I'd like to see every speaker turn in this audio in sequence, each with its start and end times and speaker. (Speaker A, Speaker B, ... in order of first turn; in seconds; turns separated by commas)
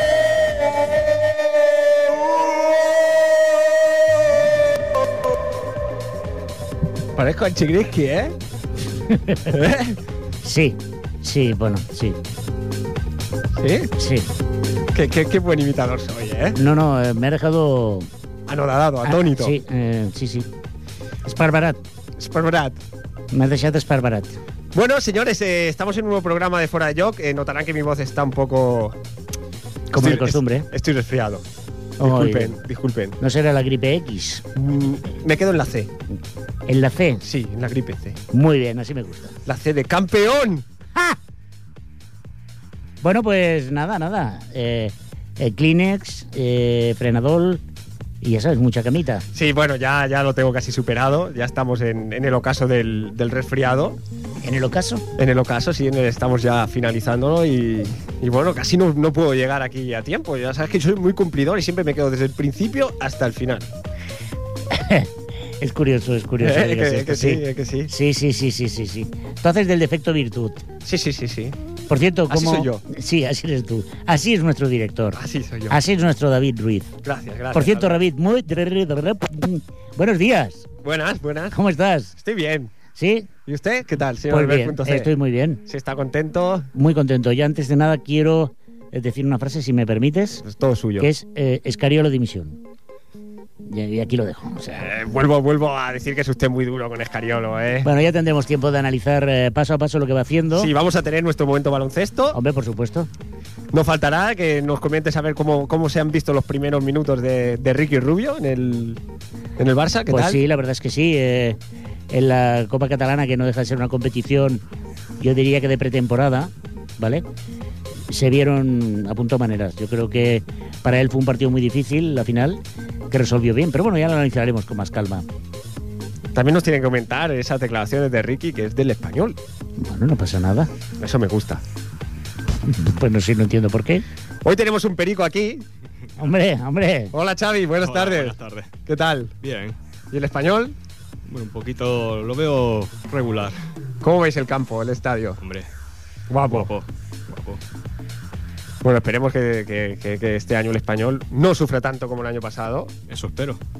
Speaker A: 7.1-8.3, Speaker B: 9.1-9.5, Speaker A: 9.5-10.0, Speaker B: 10.4-12.2, Speaker A: 13.6-13.9, Speaker B: 14.0-14.3, Speaker A: 14.9-16.6, Speaker B: 16.6-18.1, Speaker A: 18.5-19.6, Speaker B: 19.0-20.5, Speaker B: 21.2-21.8, Speaker A: 22.2-22.8, Speaker B: 23.3-24.4, Speaker A: 24.7-29.0, Speaker B: 29.9-30.7, Speaker A: 29.9-31.4, Speaker A: 32.0-33.2, Speaker B: 32.0-32.6, Speaker B: 33.2-34.4, Speaker A: 34.5-35.9, Speaker B: 36.7-37.2, Speaker A: 37.2-38.2, Speaker B: 38.3-39.4, Speaker A: 39.5-40.6, Speaker B: 43.0-47.6, Speaker B: 48.2-49.2, Speaker A: 49.3-54.0, Speaker B: 54.4-55.0, Speaker A: 55.1-63.7, Speaker B: 64.7-70.6, Speaker A: 66.4-67.9, Speaker A: 70.8-71.6, Speaker B: 71.9-76.9, Speaker A: 72.3-72.8, Speaker A: 75.2-75.8, Speaker A: 77.0-77.9, Speaker B: 77.5-80.7, Speaker A: 80.8-81.6, Speaker B: 81.5-82.2, Speaker A: 82.2-82.7, Speaker B: 82.9-83.3, Speaker A: 83.5-85.1, Speaker B: 84.3-85.6, Speaker A: 85.7-86.7, Speaker B: 86.7-90.4, Speaker A: 90.4-91.1, Speaker B: 91.0-92.6, Speaker B: 93.6-94.9, Speaker A: 94.7-97.9, Speaker B: 97.8-100.7, Speaker A: 100.5-102.4, Speaker B: 102.3-103.1, Speaker A: 103.7-109.0, Speaker A: 109.6-110.4, Speaker B: 110.1-111.6, Speaker B: 112.1-114.6, Speaker B: 115.2-117.2, Speaker B: 118.1-122.6, Speaker B: 123.1-125.2, Speaker A: 126.3-129.4, Speaker B: 129.8-130.7, Speaker A: 131.0-131.6, Speaker B: 132.6-134.0, Speaker A: 134.4-135.6, Speaker B: 136.2-137.1, Speaker A: 137.1-139.3, Speaker C: 137.8-138.7, Speaker C: 139.4-139.8, Speaker A: 140.1-140.8, Speaker C: 141.3-143.6, Speaker A: 144.0-145.4, Speaker C: 145.4-145.7, Speaker A: 146.3-146.7, Speaker C: 146.5-147.6, Speaker A: 148.8-152.9, Speaker C: 153.1-153.6